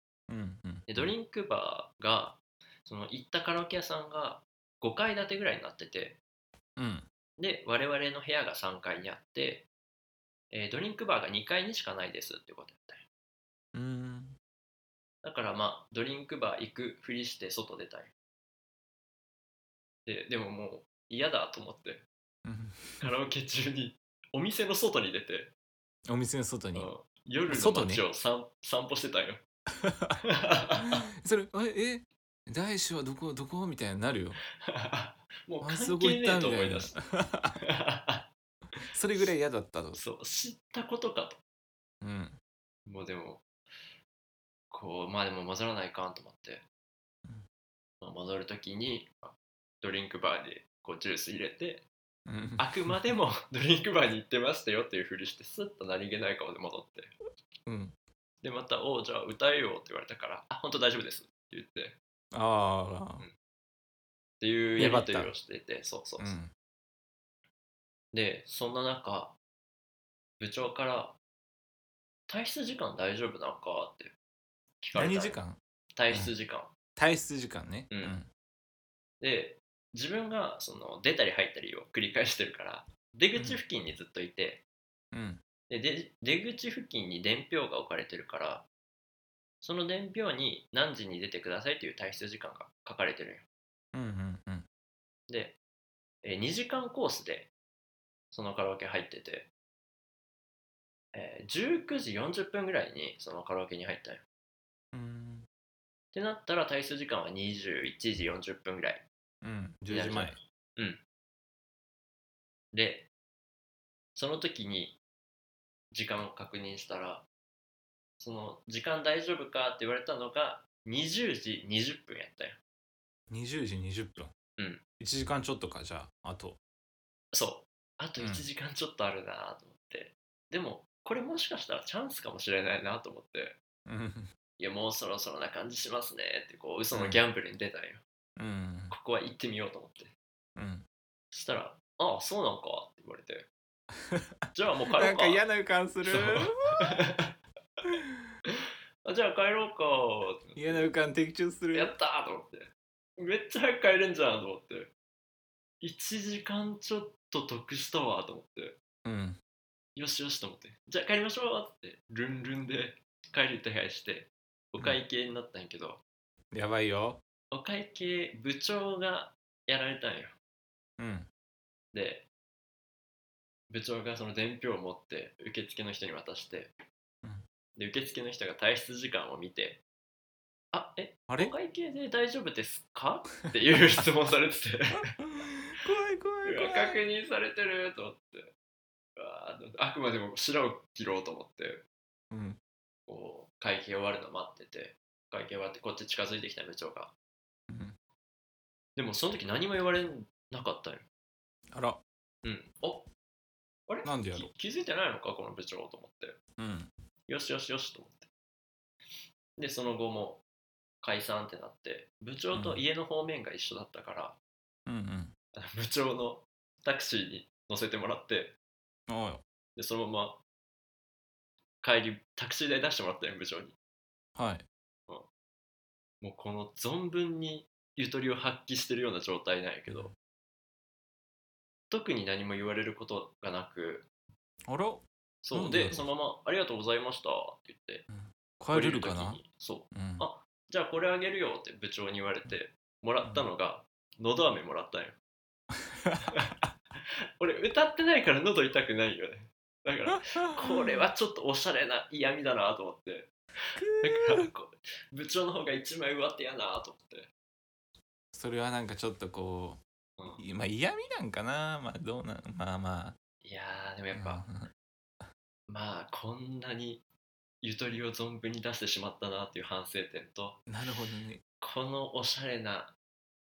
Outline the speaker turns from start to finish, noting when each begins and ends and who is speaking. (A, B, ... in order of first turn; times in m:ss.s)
0:00.3-0:01.1 A
0:00.9-0:06.2 B
0:06.8-0:07.1 A
0:07.4-0:09.7 B
0:10.5-0:13.0 B
0:13.7-0:14.4 A
0:15.2-0:18.1 B
0:20.1-0:22.0 B
0:22.4-0:23.1 A
0:23.0-0:25.5 B
0:26.1-0:26.9 A
0:26.8-0:29.4 B
0:27.5-0:28.0 A
0:29.8-0:30.2 A
0:30.2-0:31.0 B
0:31.2-0:34.4 A
0:34.6-0:37.0 B
0:35.6-0:37.6 A
0:37.6-0:39.3 B
0:38.9-0:40.0 A
0:40.0-0:41.4 B
0:42.0-0:42.4 A
0:42.9-0:43.4 B
0:44.7-0:46.6 B
0:48.0-0:51.8 B
0:52.3-0:52.9 A
0:52.6-0:57.1 B
0:57.7-0:58.0 A
0:58.4-1:02.0 B
1:02.3-1:03.3 A
1:04.4-1:06.4 B
1:04.8-1:05.3 A
1:06.2-1:06.5 A
1:08.1-1:09.4 B
1:10.4-1:11.2 B
1:12.3-1:14.1 B
1:14.8-1:15.4 B
1:14.9-1:15.6 A
1:15.9-1:16.7 B
1:17.0-1:18.3 A
1:17.9-1:18.2 B
1:19.2-1:24.6 B
1:25.1-1:25.4 A
1:25.7-1:28.7 B
1:29.6-1:33.4 B
1:33.9-1:34.7 A
1:35.3-1:35.6 B
1:36.2-1:37.5 B
1:38.3-1:39.5 B
1:41.1-1:44.2 B
1:44.9-1:45.5 A
1:46.1-1:49.1 B
1:49.4-1:50.4 A
1:49.9-1:51.0 B
1:52.7-1:53.1 B
1:54.2-1:55.0 B
1:55.9-1:57.3 B
1:58.2-2:02.6 B
2:03.3-2:04.3 A
2:05.0-2:06.6 A
2:07.3-2:13.6 B
2:08.2-2:08.4 A
2:13.9-2:14.3 A
2:14.6-2:18.0 B
2:16.9-2:17.2 A
2:18.4-2:18.9 A
2:18.9-2:20.1 B
2:20.6-2:20.8 A
2:21.3-2:23.5 B
2:24.5-2:25.4 B
2:25.0-2:27.0 A
2:26.0-2:27.3 B
2:28.5-2:30.9 B
2:30.6-2:31.9 A
2:31.7-2:34.9 B
2:35.8-2:38.8 B
2:39.0-2:39.4 A
2:40.0-2:46.0 B
2:46.5-2:47.2 A
2:47.5-2:50.4 B
2:51.0-2:51.3 A
2:51.9-2:52.3 B
2:53.7-2:56.7 B
2:57.8-2:59.8 B
3:00.7-3:05.2 B
3:01.3-3:01.5 A
3:05.2-3:07.0 A
3:06.4-3:08.5 B
3:09.2-3:11.8 B
3:12.3-3:12.6 A
3:13.1-3:17.1 B
3:17.7-3:18.0 A
3:19.0-3:21.0 B
3:21.7-3:22.0 A
3:22.4-3:23.1 B
3:23.9-3:26.4 B
3:24.0-3:24.5 A
3:26.6-3:26.9 A
3:27.3-3:28.3 B
3:29.6-3:30.4 B
3:31.0-3:34.4 B
3:32.5-3:32.8 A
3:34.9-3:35.3 A
3:35.5-3:38.6 B
3:39.1-3:39.4 A
3:39.8-3:40.4 B
3:41.8-3:43.8 B
3:44.4-3:44.7 A
3:46.2-3:50.1 B
3:49.9-3:50.1 A
3:51.9-3:54.1 B
3:54.7-3:56.1 A
3:55.4-3:58.1 B
3:58.1-4:00.2 A
3:58.7-4:05.2 B
4:03.2-4:03.5 A
4:05.9-4:06.3 A
4:06.3-4:06.6 B
4:07.4-4:17.3 B
4:13.8-4:14.5 A
4:18.3-4:19.8 A
4:20.2-4:20.4 B
4:20.4-4:23.2 A
4:23.4-4:24.4 B
4:24.1-4:24.7 A
4:25.7-4:27.0 B
4:27.6-4:30.6 B
4:30.7-4:31.4 A
4:31.6-4:32.9 B